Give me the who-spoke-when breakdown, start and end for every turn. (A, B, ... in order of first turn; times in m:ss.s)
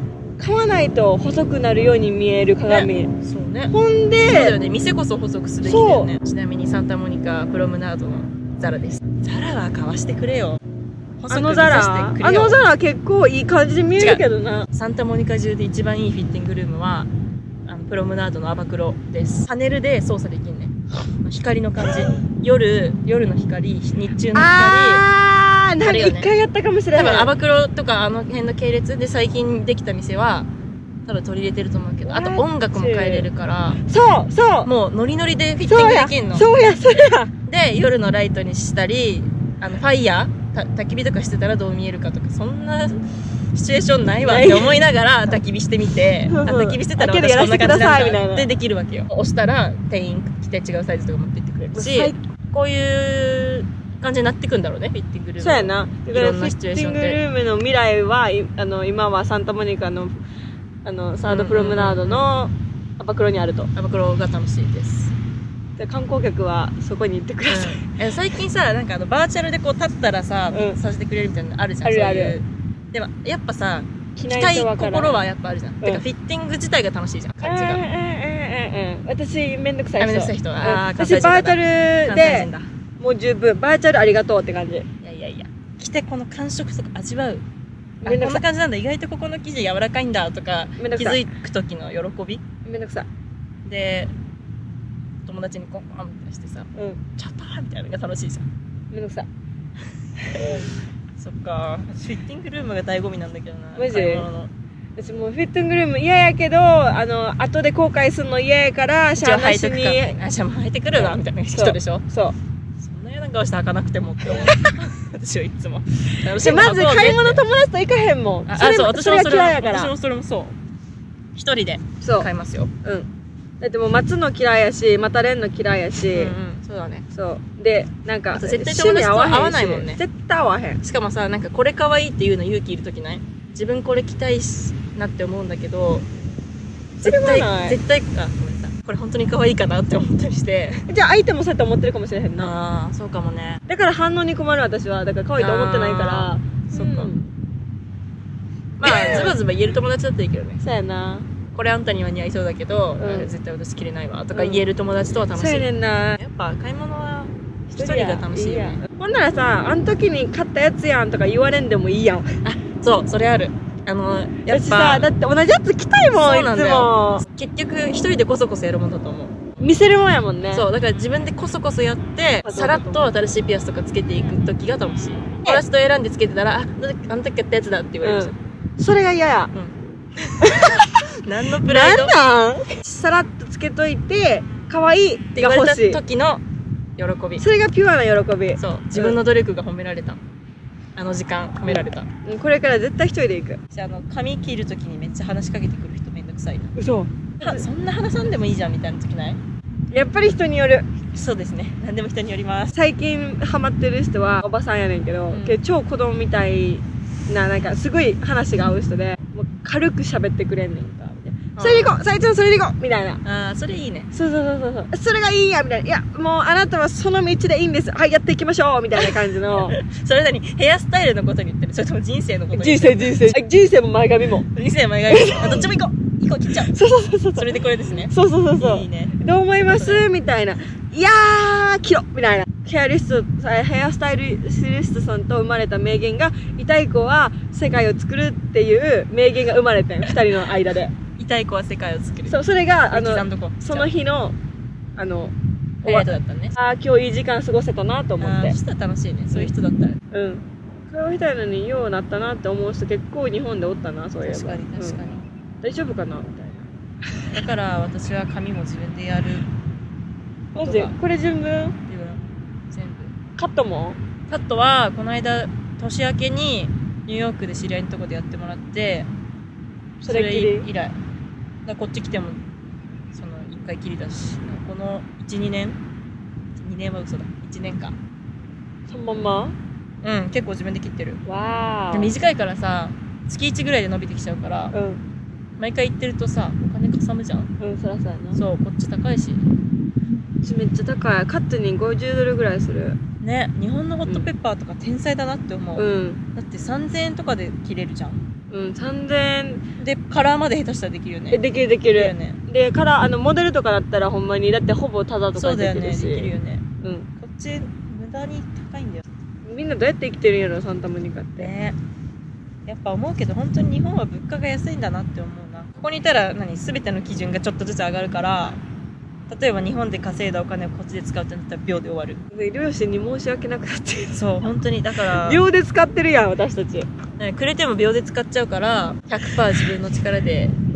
0:00.4-0:03.1 A
0:02.6-0:03.7 B
0:03.7-0:04.6 A
0:04.3-0:10.6 B
0:05.6-0:06.1 A
0:11.2-0:12.6 B
0:11.3-0:14.7 A
0:14.0-0:17.1 B
0:17.6-0:25.0 B
0:24.3-0:27.3 A
0:25.8-0:26.3 B
0:26.9-0:30.5 B
0:31.0-0:33.8 B
0:32.0-0:33.3 A
0:33.9-0:34.7 A
0:34.6-0:36.5 B
0:35.6-0:37.3 A
0:37.4-0:43.0 B
0:43.5-0:57.2 B
0:44.2-0:44.8 A
0:46.3-0:48.5 A
0:51.7-0:52.2 A
0:55.4-1:00.2 A
1:00.8-1:03.7 A
1:01.2-1:02.3 B
1:03.7-1:05.1 B
1:05.8-1:08.0 A
1:07.5-1:17.8 B
1:10.5-1:10.8 A
1:11.8-1:12.4 A
1:14.2-1:15.2 A
1:17.4-1:24.8 A
1:20.0-1:22.7 B
1:25.0-1:27.4 B
1:28.0-1:28.4 A
1:28.0-1:32.4 B
1:30.8-1:31.2 A
1:32.6-1:33.0 A
1:33.6-1:34.1 B
1:35.2-1:38.4 B
1:38.9-1:39.3 A
1:40.3-1:44.5 B
1:43.8-1:44.3 A
1:45.0-1:50.2 A
1:49.2-1:52.0 B
1:50.9-1:52.4 A
1:52.8-1:57.4 B
1:56.4-1:59.9 A
1:58.5-2:00.6 B
2:01.3-2:02.7 B
2:02.0-2:02.3 A
2:03.6-2:06.3 A
2:06.1-2:07.0 B
2:07.1-2:10.8 A
2:08.3-2:10.0 B
2:10.8-2:16.0 B
2:17.0-2:20.8 B
2:17.0-2:17.8 A
2:20.9-2:22.5 A
2:22.4-2:23.6 B
2:23.7-2:27.2 A
2:25.4-2:27.1 B
2:28.8-2:30.6 B
2:28.8-2:29.4 A
2:30.6-2:31.3 A
2:31.5-2:35.6 B
2:33.0-2:33.3 A
2:34.3-2:34.6 A
2:35.3-2:36.2 A
2:36.2-2:38.8 B
2:37.7-2:42.3 A
2:42.4-2:45.1 B
2:44.4-2:47.2 A
2:46.1-2:49.4 B
2:49.6-2:50.7 A
2:50.5-2:58.4 B
2:52.4-2:53.1 A
2:58.0-2:59.5 A
2:59.5-3:02.2 B
3:00.4-3:01.0 A
3:01.6-3:06.0 A
3:05.3-3:06.4 B
3:07.0-3:07.4 B
3:07.4-3:09.2 A
3:08.6-3:10.2 B
3:11.0-3:12.1 B
3:11.6-3:13.6 A
3:13.7-3:16.7 B
3:16.8-3:17.6 A
3:17.4-3:19.4 B
3:19.9-3:20.9 A
3:21.1-3:22.8 B
3:22.7-3:33.2 A
3:25.3-3:25.6 B
3:31.6-3:32.0 B
3:33.2-3:34.1 B
3:34.1-3:39.8 A
3:39.0-3:43.3 B
3:42.5-3:44.5 A
3:44.4-3:46.7 B
3:45.1-3:45.7 A
3:46.6-4:00.9 A
3:47.3-3:50.0 B
4:01.2-4:02.4 B
4:02.3-4:04.3 A
4:02.9-4:03.9 B
4:05.0-4:08.6 A
4:05.8-4:06.6 B
4:08.2-4:10.0 B
4:10.1-4:15.0 A
4:14.2-4:15.2 B
4:15.6-4:16.6 A
4:17.3-4:19.5 B
4:20.5-4:20.9 B
4:20.6-4:21.8 A
4:21.9-4:23.1 B
4:23.4-4:24.0 A
4:24.3-4:29.1 B
4:30.0-4:30.9 B
4:30.1-4:30.7 A
4:31.6-4:32.4 B
4:33.1-4:35.8 B
4:36.6-4:37.9 B
4:38.9-4:39.6 A
4:40.0-4:41.2 B
4:41.2-4:42.1 A
4:41.9-4:44.7 B
4:44.7-4:45.0 A
4:45.6-4:47.5 B
4:47.6-4:48.4 A
4:48.4-4:49.4 B
4:50.4-4:53.0 A
4:53.2-4:58.2 B
4:55.8-4:56.2 A
4:58.5-4:59.6 A
4:59.8-5:02.4 B
5:01.3-5:06.3 A
5:05.3-5:06.6 B
5:06.8-5:07.1 A
5:07.2-5:09.0 B
5:09.4-5:11.5 A
5:11.4-5:11.8 B
5:12.6-5:18.6 B
5:19.3-5:22.2 B
5:22.3-5:24.5 A
5:24.1-5:25.4 B
5:25.1-5:26.9 A
5:27.2-5:30.5 B